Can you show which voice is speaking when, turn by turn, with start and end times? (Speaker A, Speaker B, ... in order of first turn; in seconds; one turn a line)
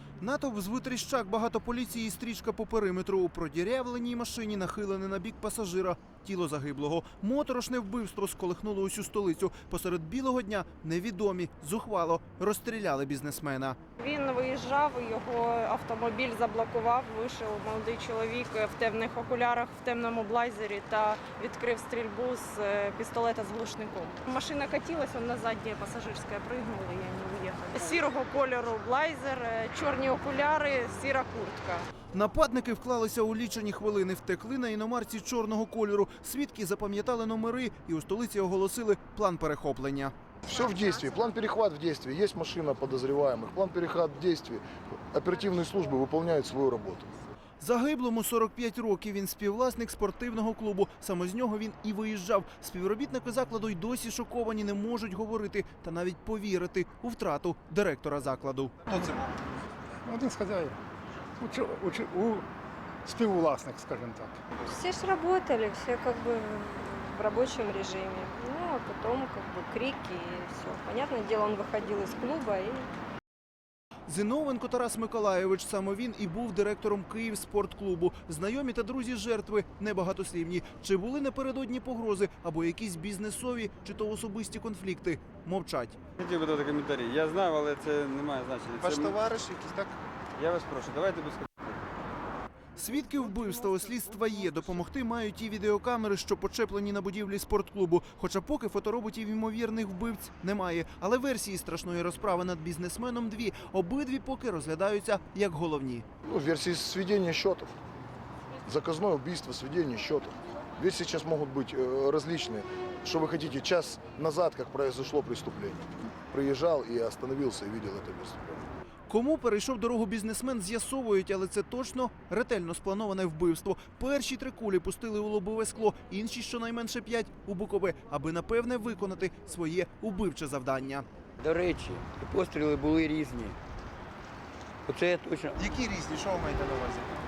Speaker A: 0.2-13.8
Speaker B: 14.0-31.9
Speaker A: 32.1-40.1
Speaker C: 40.5-47.1
Speaker B: 40.5-41.1
Speaker A: 47.6-58.8
Speaker D: 60.0-60.8
Speaker D: 61.4-62.5
Speaker D: 63.0-64.4
Speaker E: 64.6-72.9
Speaker A: 74.1-86.0
Speaker F: 86.2-89.2
Speaker A: 88.8-90.0
Speaker F: 90.4-91.8
Speaker A: 92.8-106.0
Speaker C: 106.2-107.7
Speaker C: 108.6-118.6
Speaker A: 119.1-131.1
Speaker G: 131.4-133.6
Speaker G: 134.9-135.6
Speaker A: 135.6-137.1